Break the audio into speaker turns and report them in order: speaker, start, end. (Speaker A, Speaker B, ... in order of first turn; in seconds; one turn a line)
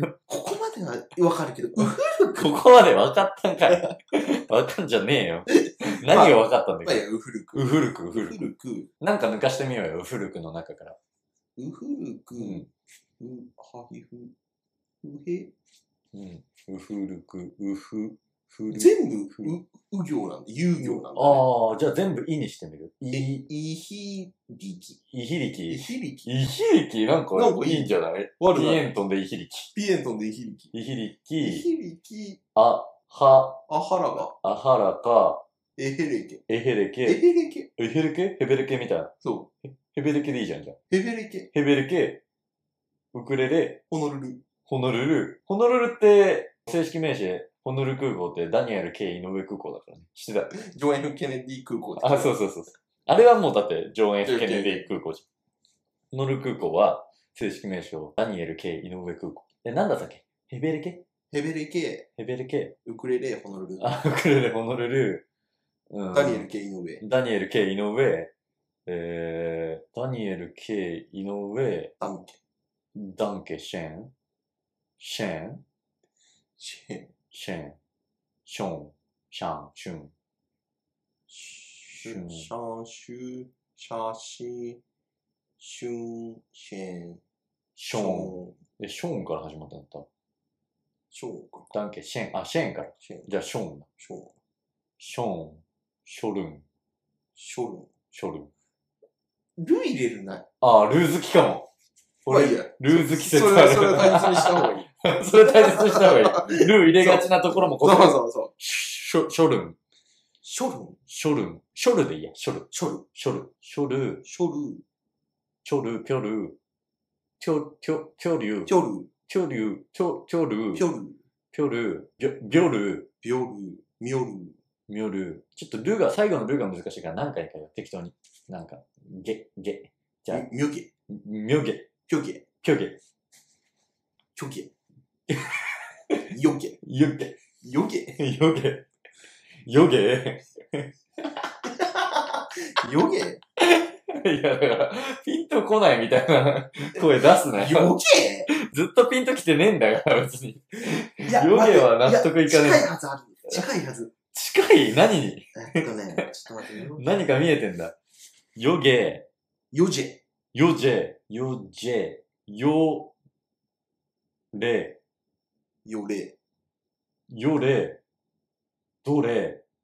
Speaker A: 0.3-2.5
Speaker B: 2.4-8.5
Speaker A: 5.5-8.9
Speaker B: 9.0-11.0
Speaker A: 11.6-12.6
Speaker B: 12.4-12.7
Speaker A: 13.2-14.3
Speaker A: 15.0-15.5
Speaker B: 16.1-19.5
Speaker A: 18.7-21.4
Speaker B: 20.8-23.4
Speaker A: 23.1-25.0
Speaker B: 25.1-29.7
Speaker A: 25.7-26.3
Speaker A: 27.3-28.9
Speaker A: 29.7-30.7
Speaker B: 30.7-31.7
Speaker A: 31.4-32.4
Speaker B: 32.5-33.6
Speaker A: 33.7-34.3
Speaker B: 34.3-35.4
Speaker A: 35.8-36.5
Speaker B: 36.5-37.2
Speaker A: 37.0-37.7
Speaker B: 37.8-39.1
Speaker A: 39.2-39.5
Speaker B: 39.8-40.8
Speaker A: 40.9-41.5
Speaker B: 41.5-42.2
Speaker B: 43.1-43.8
Speaker A: 43.9-44.4
Speaker B: 44.6-50.6
Speaker A: 50.5-52.4
Speaker B: 52.0-55.2
Speaker A: 54.2-54.9
Speaker B: 56.1-61.0
Speaker A: 61.3-62.1
Speaker B: 62.2-62.8
Speaker A: 62.9-64.0
Speaker B: 63.8-65.2
Speaker B: 65.9-66.5
Speaker A: 66.1-67.0
Speaker B: 67.0-68.3
Speaker B: 68.9-71.9
Speaker A: 72.0-72.4
Speaker B: 73.0-74.1
Speaker B: 75.0-75.6
Speaker A: 76.6-77.1
Speaker B: 77.3-77.8
Speaker B: 78.5-80.1
Speaker B: 81.3-82.5
Speaker A: 82.0-84.8
Speaker A: 85.6-87.2
Speaker B: 87.8-90.1
Speaker A: 87.9-88.6
Speaker A: 91.1-91.7
Speaker B: 91.7-93.9
Speaker A: 93.0-93.3
Speaker A: 94.0-94.3
Speaker B: 95.0-96.6
Speaker A: 97.4-97.9
Speaker B: 98.1-98.5
Speaker A: 99.6-100.4
Speaker B: 100.6-101.7
Speaker B: 102.2-109.8
Speaker A: 102.3-104.9
Speaker A: 105.5-108.5
Speaker A: 110.4-111.0
Speaker B: 111.1-114.2
Speaker A: 112.7-113.1
Speaker A: 114.2-114.8
Speaker B: 115.6-116.6
Speaker B: 117.4-118.7
Speaker A: 118.7-119.1
Speaker B: 119.3-120.9
Speaker A: 120.7-121.2
Speaker B: 121.5-123.1
Speaker A: 123.2-124.6
Speaker B: 124.9-130.5
Speaker A: 130.3-130.9
Speaker B: 131.1-131.9
Speaker A: 132.1-132.5
Speaker B: 132.6-133.0
Speaker A: 134.4-134.7
Speaker B: 135.3-136.2
Speaker A: 136.3-136.8
Speaker B: 136.8-137.4
Speaker A: 137.6-138.2
Speaker B: 138.2-138.8
Speaker B: 139.7-140.9
Speaker A: 141.8-143.4
Speaker B: 143.6-147.9
Speaker A: 147.3-148.5
Speaker B: 148.5-152.9
Speaker A: 151.2-154.1
Speaker B: 154.3-156.2
Speaker A: 155.6-157.3
Speaker B: 157.0-157.9
Speaker B: 158.6-159.3
Speaker A: 159.7-160.2
Speaker B: 160.5-163.1
Speaker B: 164.5-165.0
Speaker A: 165.8-166.4
Speaker B: 167.3-168.0
Speaker B: 169.0-169.6